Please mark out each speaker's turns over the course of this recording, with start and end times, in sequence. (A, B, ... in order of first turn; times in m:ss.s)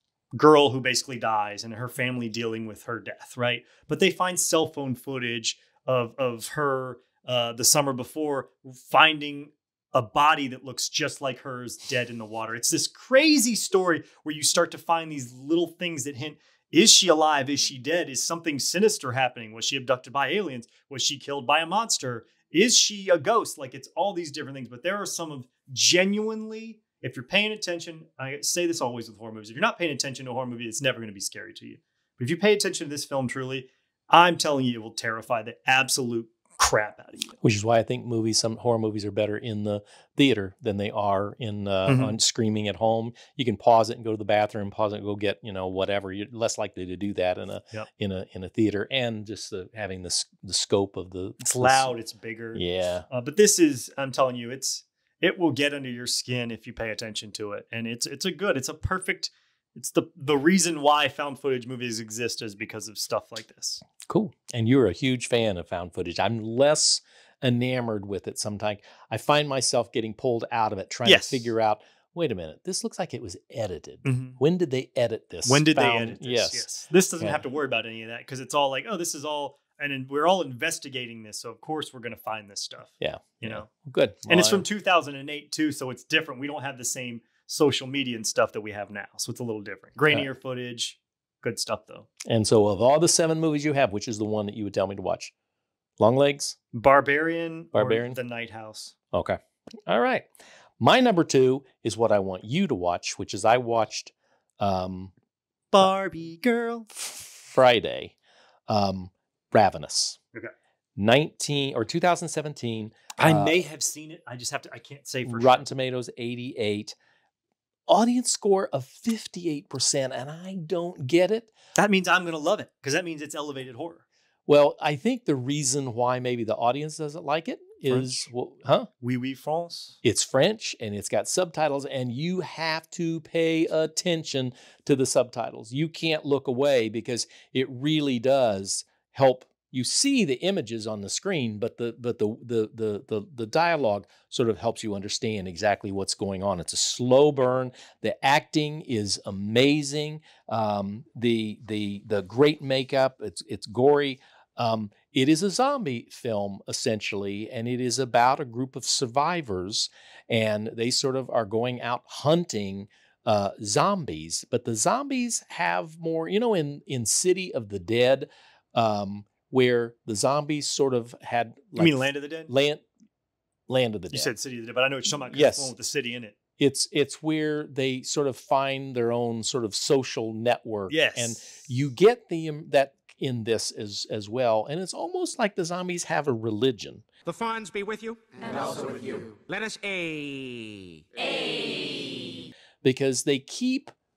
0:00.3-0:37.4 A
0:37.4-0:51.9 B
0:41.9-0:42.2 A
0:51.4-1:03.8 A
0:52.5-0:53.0 B
1:04.0-1:16.7 B
1:11.0-1:11.5 A
1:14.0-1:14.4 A
1:15.4-1:23.7 A
1:23.0-1:24.6 B
1:24.3-1:32.1 A
1:32.3-1:35.3 B
1:36.0-1:36.6 B
1:36.7-1:39.0 A
1:37.7-1:38.2 B
1:39.1-1:40.3 B
1:40.8-1:45.1 B
1:45.7-1:46.9 A
1:46.9-1:48.1 B
1:48.7-1:50.2 B
1:51.0-1:53.6 B
1:53.2-1:55.6 A
1:55.2-1:56.9 B
1:57.9-2:01.5 B
2:01.8-2:04.0 A
2:04.5-2:08.9 B
2:07.9-2:08.2 A
2:09.0-2:10.0 A
2:10.0-2:52.8 B
2:51.8-2:52.5 A
2:53.7-2:54.3 B
2:54.1-2:56.4 A
2:55.3-2:55.7 B
2:56.6-3:07.0 B
3:00.9-3:01.6 A
3:07.2-3:11.3 C
3:12.8-3:13.9 B